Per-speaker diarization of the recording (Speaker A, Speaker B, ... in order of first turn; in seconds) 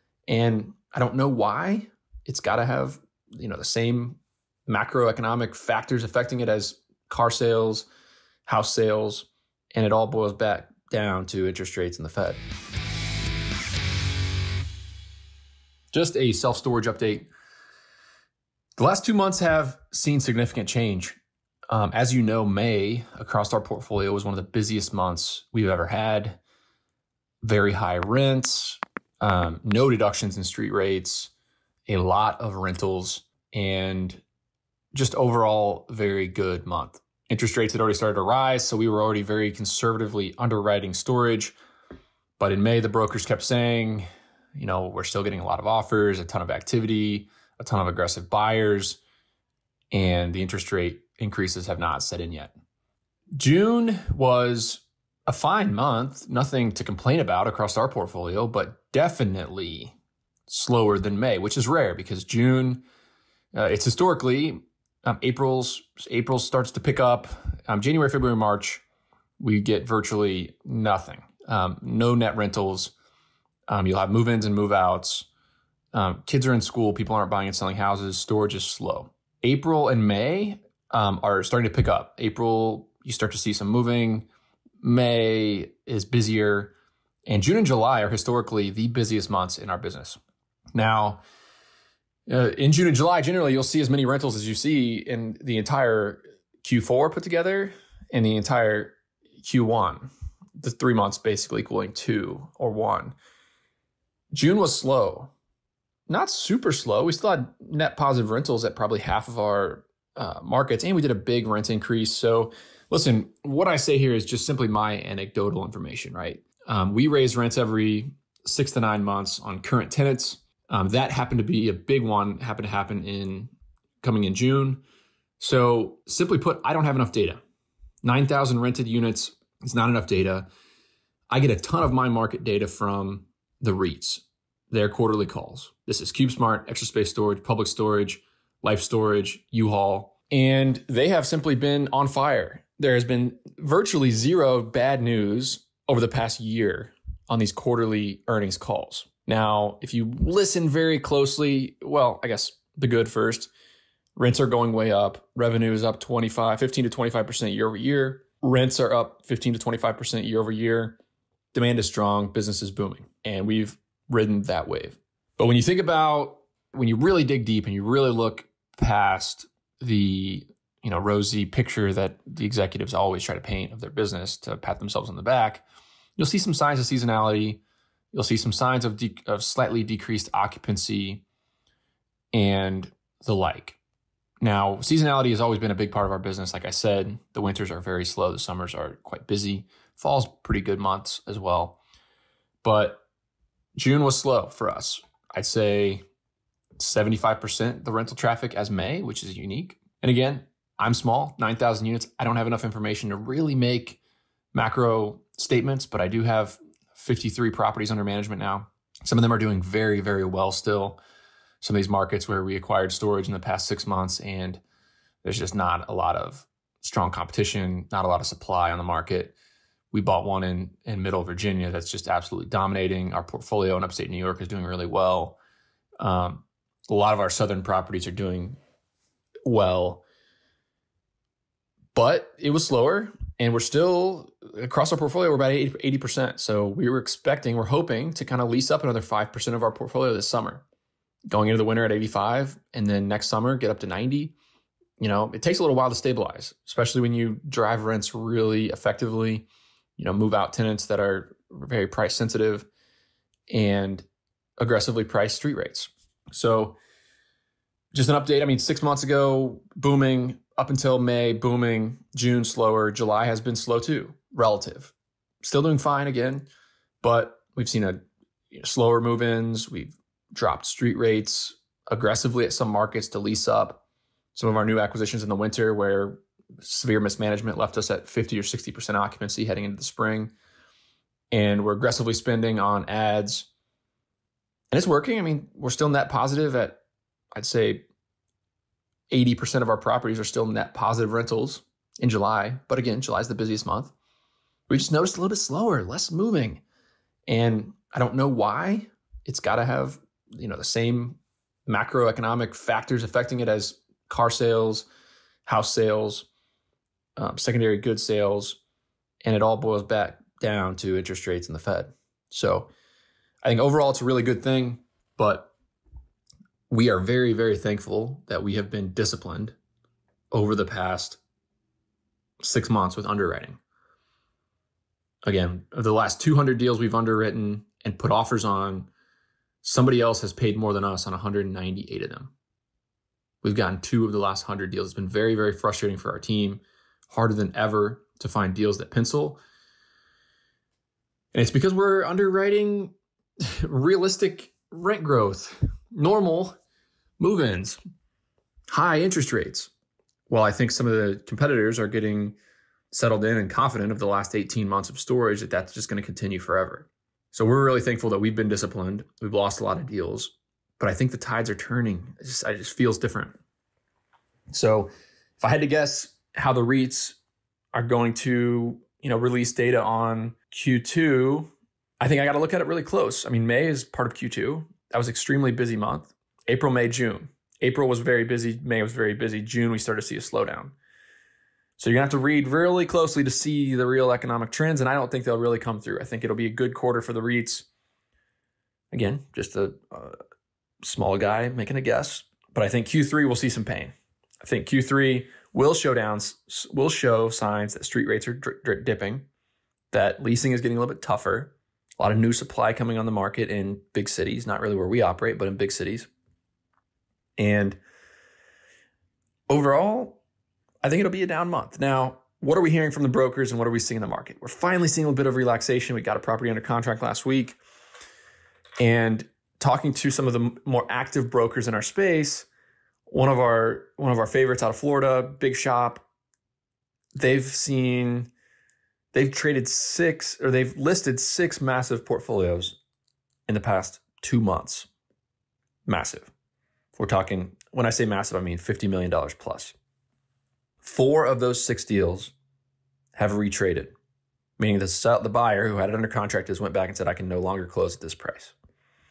Speaker A: 0.3-7.9, 8.4-12.4, 15.9-17.3, 18.8-21.2, 21.7-26.4, 27.4-31.3, 31.9-34.2, 34.9-41.5, 42.4-49.0, 49.9-52.5, 53.4-60.0, 60.5-62.8, 63.5-68.8, 69.4-72.9, 73.7-75.3, 75.9-84.3, 84.8-86.7, 87.2-90.2, 90.7-91.2, 92.3-103.2, 104.3-105.3, 106.1-123.5, 124.0-124.8, 125.4-127.4, 128.0-130.5, 131.3-153.5, 154.2-160.9, 161.5-175.6, 176.2-181.2, 182.3-183.8, 184.4-191.8, 192.6-193.0, 193.8-196.0, 196.8-204.0, 204.5-211.0, 211.6-214.6, 215.2-219.3, 219.9-225.4, 226.0-228.6, 229.4-230.0, 231.9-240.6, 241.3-244.3, 245.0-252.7, 253.5-254.1, 254.6-256.8, 257.9-266.5, 267.0-268.0, 268.5-273.8, 274.3-280.3, 281.3-283.5, 284.7-286.8, 287.4-287.8, 289.1-293.9, 294.7-296.6, 297.3-304.9, 305.4-306.3, 307.2-308.6, 309.2-312.7, 313.4-315.5, 316.7-319.6, 320.3-321.2, 322.4-323.6, 325.2-328.9, 329.6-332.3, 333.4-339.4, 341.3-346.6, 347.2-347.8, 348.7-349.7, 350.3-352.4, 352.9-363.4, 364.5-367.2, 367.7-380.7, 381.8-387.7, 388.9-390.2, 390.8-399.2, 399.9-406.1, 407.4-407.8, 409.5-410.2, 410.8-417.6, 418.8-422.5, 423.1-426.0, 427.1-428.3, 429.1-432.8, 433.5-434.9, 435.9-436.3, 436.9-439.7, 440.8-442.3, 443.1-443.9, 444.6-448.5